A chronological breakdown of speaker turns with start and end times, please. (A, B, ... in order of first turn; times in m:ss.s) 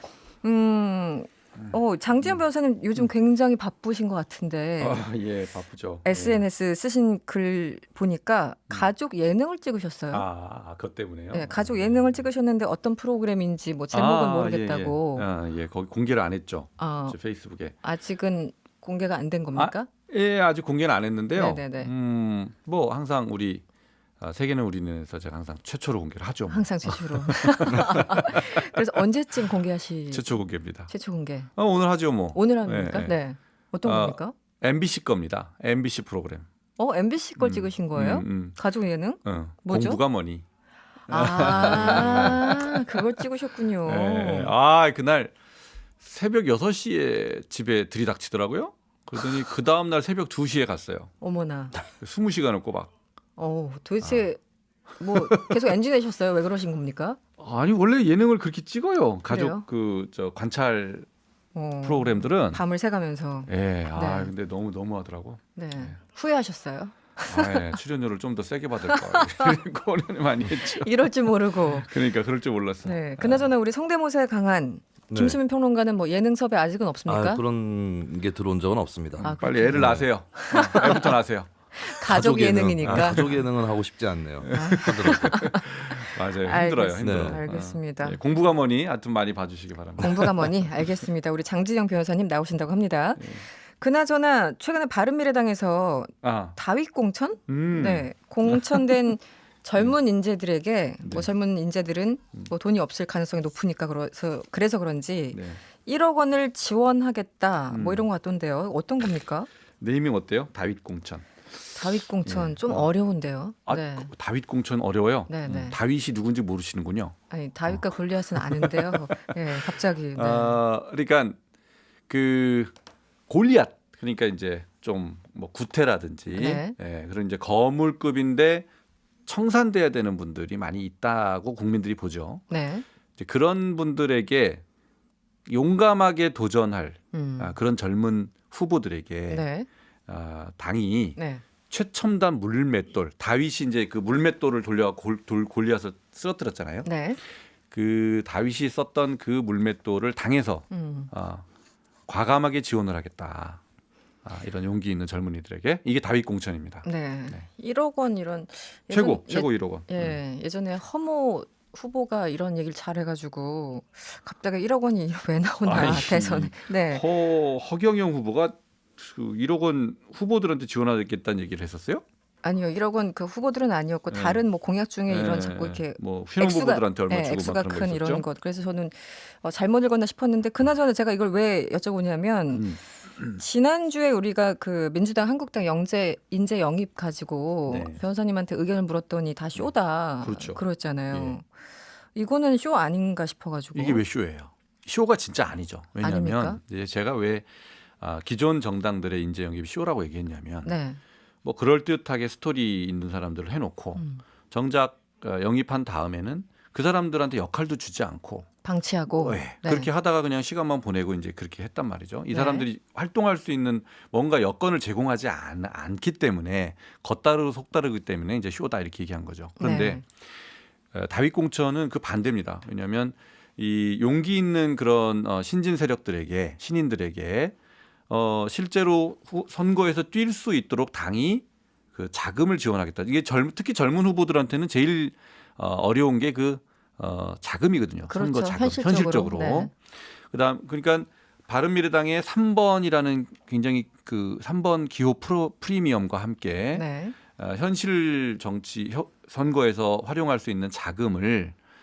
0:00.4-0:05.0 A
0:01.6-0:02.4 B
0:04.8-0:06.4 B
0:06.0-0:10.2 A
0:10.1-0:12.2 B
0:11.3-0:15.3 A
0:13.9-0:17.8 B
0:16.8-0:17.2 A
0:17.8-0:19.9 A
0:19.6-0:23.6 B
0:21.4-0:21.9 A
0:24.2-0:29.0 B
0:26.5-0:30.3 A
0:30.1-0:30.9 B
0:30.9-0:31.5 A
0:31.6-0:33.2 B
0:32.3-0:34.3 A
0:33.8-0:36.4 B
0:36.8-0:40.0 A
0:37.4-0:38.6 B
0:39.2-0:40.4 B
0:41.1-0:43.2 B
0:41.1-0:44.5 A
0:43.8-0:45.3 B
0:46.0-0:51.1 B
0:51.2-0:51.8 A
0:51.9-0:52.9 B
0:53.4-0:54.4 A
0:55.0-0:57.2 A
0:55.2-0:55.6 B
0:57.4-1:01.1 B
0:59.3-0:59.6 A
1:01.5-1:04.3 A
1:01.8-1:02.6 B
1:03.5-1:06.0 B
1:05.6-1:07.8 A
1:07.3-1:11.1 B
1:08.9-1:09.6 A
1:10.6-1:11.9 A
1:11.6-1:13.5 B
1:12.8-1:17.4 A
1:15.1-1:15.4 C
1:17.1-1:20.1 C
1:19.2-1:21.5 B
1:19.2-1:21.1 A
1:21.8-1:23.3 A
1:22.0-1:25.5 C
1:22.8-1:23.4 B
1:24.4-1:30.9 B
1:24.5-1:28.2 A
1:27.0-1:27.4 C
1:30.0-1:49.5 A
1:33.2-1:33.4 B
1:36.2-1:36.6 B
1:37.5-1:39.0 B
1:41.0-1:41.3 B
1:45.3-1:45.6 B
1:47.7-1:48.1 B
1:49.8-1:51.7 B
1:51.8-1:54.1 A
1:52.2-1:52.9 B
1:53.7-1:57.2 B
1:55.3-1:55.8 A
1:57.3-2:00.6 A
1:58.4-1:59.4 B
2:00.1-2:01.4 B
2:02.1-2:02.7 B
2:03.3-2:08.7 B
2:06.3-2:06.8 A
2:09.3-2:12.4 B
2:12.5-2:12.8 A
2:13.2-2:14.6 B
2:15.5-2:19.4 B
2:17.1-2:17.5 A
2:19.3-2:19.7 A
2:20.1-2:21.2 B
2:21.2-2:21.4 A
2:21.7-2:26.9 B
2:26.8-2:27.2 A
2:27.7-2:31.4 B
2:30.7-2:31.1 A
2:32.1-2:33.6 B
2:34.2-2:37.4 B
2:36.8-2:47.0 A
2:38.9-2:40.2 B
2:45.6-2:52.0 B
2:52.4-3:02.7 A
2:54.1-2:54.4 B
2:55.1-2:58.2 B
3:02.5-3:03.4 B
3:03.4-3:11.4 A
3:07.7-3:08.0 B
3:10.2-3:11.4 B
3:12.1-3:14.0 A
3:13.8-3:17.5 B
3:16.0-3:16.6 A
3:18.0-3:20.8 B
3:20.6-3:21.0 A
3:21.4-3:28.5 B
3:24.0-3:24.2 A
3:28.6-3:29.9 A
3:29.2-3:40.3 B
3:32.3-3:32.7 A
3:39.6-3:40.0 A
3:40.9-3:47.5 B
3:48.1-4:11.5 B
3:58.1-3:59.7 A
4:06.7-4:07.2 A